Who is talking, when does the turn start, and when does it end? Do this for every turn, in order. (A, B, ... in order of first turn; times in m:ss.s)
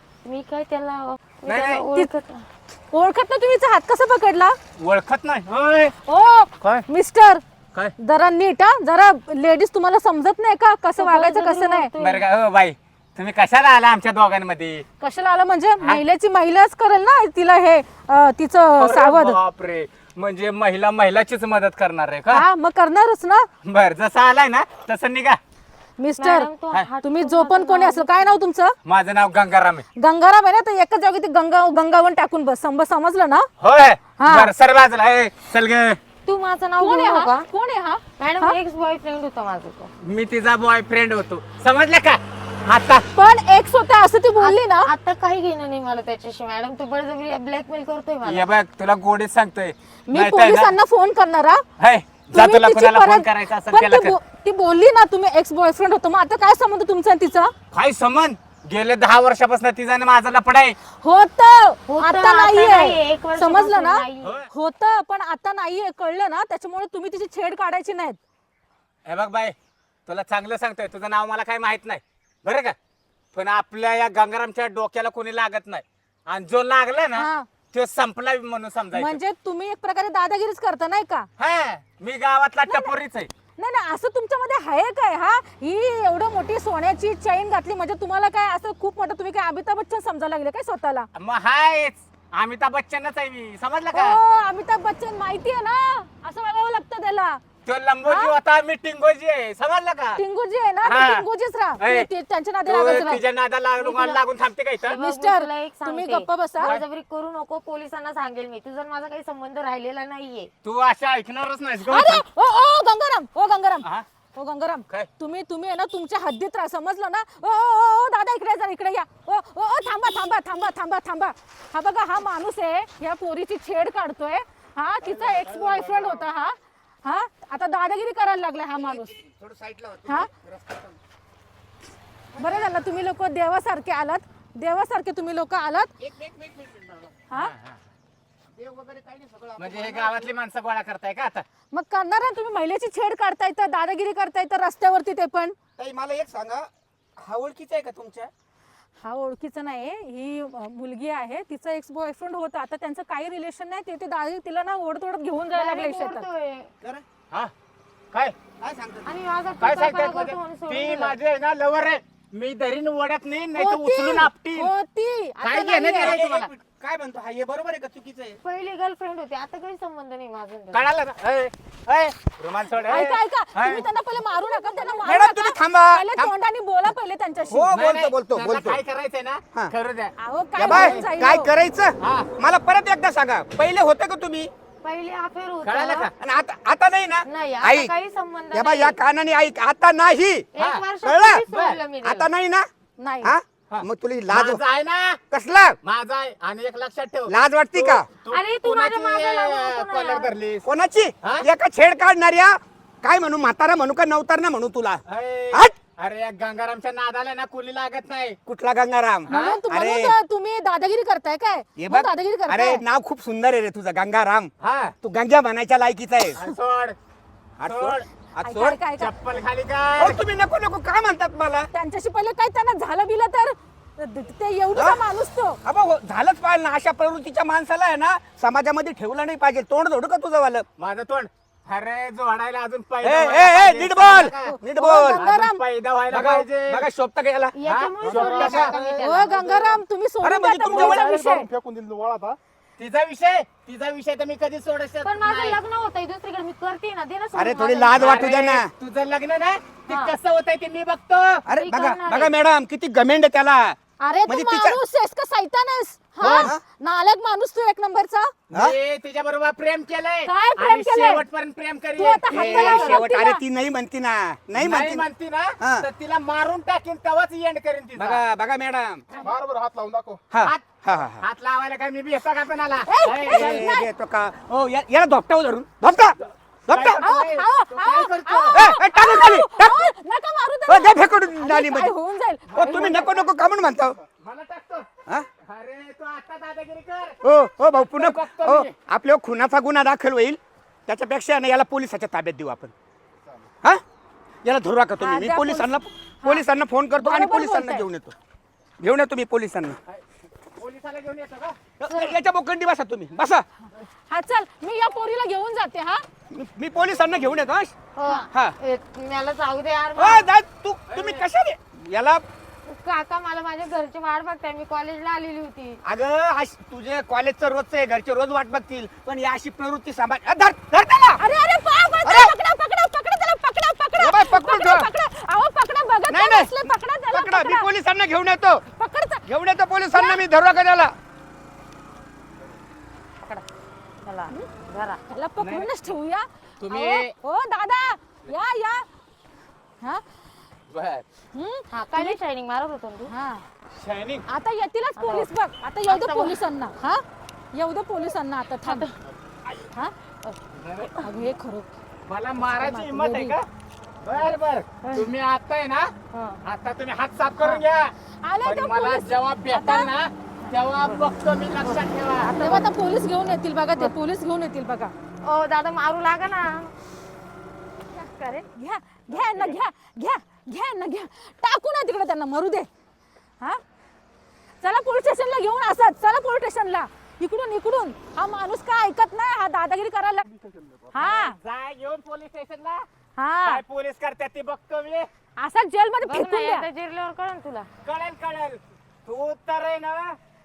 0:00.2-0:02.5 A
0:01.5-0:01.9 B
0:02.9-0:04.6 C
0:04.8-0:05.9 B
0:06.0-0:07.4 C
0:08.0-0:11.9 C
0:11.0-0:12.2 A
0:12.0-0:14.8 B
0:15.0-0:19.4 C
0:18.7-0:22.4 B
0:22.3-0:23.5 C
0:23.6-0:25.4 B
0:26.0-0:28.8 C
0:26.2-0:28.4 A
0:28.8-0:29.8 B
0:30.0-0:33.5 C
0:33.6-0:36.0 B
0:34.2-0:34.5 C
0:36.3-0:37.5 A
0:36.8-0:38.6 C
0:38.2-0:39.9 A
0:40.0-0:43.1 B
0:43.1-0:44.9 C
0:44.4-0:48.5 A
0:48.2-0:50.8 B
0:50.1-0:51.6 C
0:51.8-0:54.2 B
0:52.3-0:57.5 C
0:57.7-1:00.8 B
1:00.9-1:08.2 C
1:01.9-1:04.4 A
1:04.2-1:04.5 B
1:09.1-1:09.6 B
1:10.1-1:12.8 B
1:13.3-1:19.2 B
1:17.2-1:17.5 C
1:18.9-1:21.3 C
1:21.4-1:23.3 B
1:22.6-1:23.0 C
1:23.6-1:31.1 C
1:31.2-1:34.2 B
1:33.9-1:37.4 C
1:37.7-1:40.2 B
1:38.1-1:38.4 C
1:40.2-1:43.2 C
1:40.8-1:41.3 B
1:41.8-1:42.1 B
1:42.6-1:45.0 B
1:43.8-1:44.2 C
1:44.8-1:50.5 A
1:45.0-1:46.8 C
1:50.6-1:52.2 B
1:51.8-2:09.2 C
2:05.0-2:06.2 D
2:08.7-2:11.0 D
2:12.4-2:13.0 D
2:12.4-2:15.9 C
2:16.0-2:17.2 D
2:17.3-2:17.8 B
2:18.5-2:20.3 D
2:19.6-2:21.4 B
2:21.7-2:25.6 C
2:25.8-2:28.3 D
2:29.0-2:36.3 C
2:35.5-2:36.7 A
2:38.6-2:39.1 D
2:39.0-2:41.2 A
2:39.6-2:44.7 B
2:43.5-2:46.2 C
2:45.4-2:46.5 B
2:46.0-2:48.4 D
2:48.4-2:50.9 A
2:50.7-2:53.9 B
2:52.9-2:57.7 C
2:55.0-2:56.3 D
2:57.5-2:58.8 D
2:57.7-3:01.1 B
3:00.2-3:01.6 C
3:00.6-3:04.5 D
3:02.0-3:02.3 B
3:04.8-3:06.1 A
3:05.6-3:06.1 B
3:06.2-3:07.9 D
3:07.3-3:09.0 A
3:08.5-3:10.5 D
3:10.5-3:12.3 A
3:10.6-3:10.9 B
3:11.0-3:11.4 D
3:11.5-3:11.8 B
3:12.0-3:12.7 D
3:13.0-3:13.3 C
3:13.2-3:14.6 D
3:13.7-3:15.2 B
3:15.3-3:15.8 D
3:15.8-3:20.6 B
3:17.3-3:18.1 D
3:18.3-3:20.3 A
3:20.6-3:25.8 D
3:25.1-3:28.4 B
3:28.5-3:30.2 D
3:29.3-3:29.6 B
3:29.3-3:32.8 C
3:31.8-3:34.5 D
3:34.6-3:34.9 B
3:35.0-3:36.5 D
3:36.4-3:37.0 B
3:37.6-3:38.8 D
3:37.6-3:40.2 B
3:38.4-3:39.1 C
3:40.0-3:41.7 D
3:41.7-3:45.6 C
3:44.8-3:45.0 D
3:45.6-3:50.7 D
3:50.8-3:54.6 B
3:53.0-3:55.3 D
3:54.4-3:55.6 C
3:55.2-3:56.9 B
3:56.1-3:57.6 D
3:57.5-3:59.8 A
3:57.6-3:58.8 B
3:58.1-3:58.5 D
3:58.3-3:59.7 E
3:58.9-4:01.5 C
4:00.2-4:01.1 D
4:00.7-4:02.4 E
4:02.8-4:05.6 B
4:05.0-4:08.0 A
4:07.4-4:08.7 D
4:08.0-4:11.4 B
4:09.9-4:10.1 A
4:11.5-4:14.8 D
4:11.5-4:12.3 A
4:14.0-4:18.3 C
4:16.2-4:16.6 D
4:18.5-4:23.0 B
4:20.3-4:21.2 C
4:22.0-4:23.4 C
4:22.3-4:25.1 D
4:24.6-4:28.2 B
4:25.6-4:25.9 D
4:28.0-4:29.0 D
4:29.2-4:30.2 E
4:30.3-4:31.2 D
4:30.4-4:33.7 B
4:32.8-4:33.9 C
4:33.3-4:37.1 D
4:36.7-4:38.7 B
4:37.0-4:43.3 C
4:38.5-4:39.9 D
4:40.7-4:41.9 D
4:42.5-4:42.9 B
4:42.5-4:44.0 D
4:44.2-4:44.9 B
4:45.4-4:47.2 B
4:47.2-4:52.7 D
4:47.8-4:48.7 B
4:54.4-4:58.1 D
4:55.0-4:56.4 C
4:57.0-4:57.9 C
4:58.8-4:59.8 D
5:00.6-5:01.6 B
5:01.8-5:03.5 D
5:01.9-5:02.2 A
5:04.1-5:06.1 C
5:06.3-5:07.8 D
5:08.0-5:10.3 A
5:10.0-5:12.2 D
5:10.9-5:11.2 B
5:12.7-5:15.8 A
5:15.8-5:21.2 D
5:21.2-5:27.7 C
5:22.0-5:22.4 D
5:24.0-5:24.9 D
5:26.1-5:28.6 D
5:28.6-5:29.3 C
5:29.3-5:31.0 D
5:29.9-5:30.2 C
5:34.0-5:35.0 A
5:35.1-5:38.9 C
5:35.4-5:36.0 B
5:36.6-5:37.2 B
5:40.7-5:41.1 B
5:41.3-5:42.2 C
5:41.7-5:43.1 A
5:43.1-5:43.5 C
5:43.8-5:44.2 B
5:44.3-5:48.9 C
5:45.0-5:45.3 A
5:45.9-5:46.4 A
5:48.7-5:48.9 A
5:50.6-5:51.0 B
5:51.0-5:51.7 C
5:52.1-5:53.4 B
5:52.4-5:53.4 C
5:54.0-5:55.9 B
5:56.1-5:56.4 A
5:56.4-6:02.4 B
5:58.2-6:00.6 C
6:01.6-6:02.7 A
6:02.3-6:04.9 C
6:05.2-6:06.7 A
6:08.0-6:12.7 C
6:09.1-6:09.6 B
6:14.6-6:20.3 C
6:20.4-6:21.0 E
6:20.9-6:21.4 C
6:21.0-6:22.9 B
6:23.2-6:23.6 C
6:23.4-6:25.1 B
6:25.4-6:26.7 C
6:26.0-6:27.7 A
6:27.8-6:30.2 B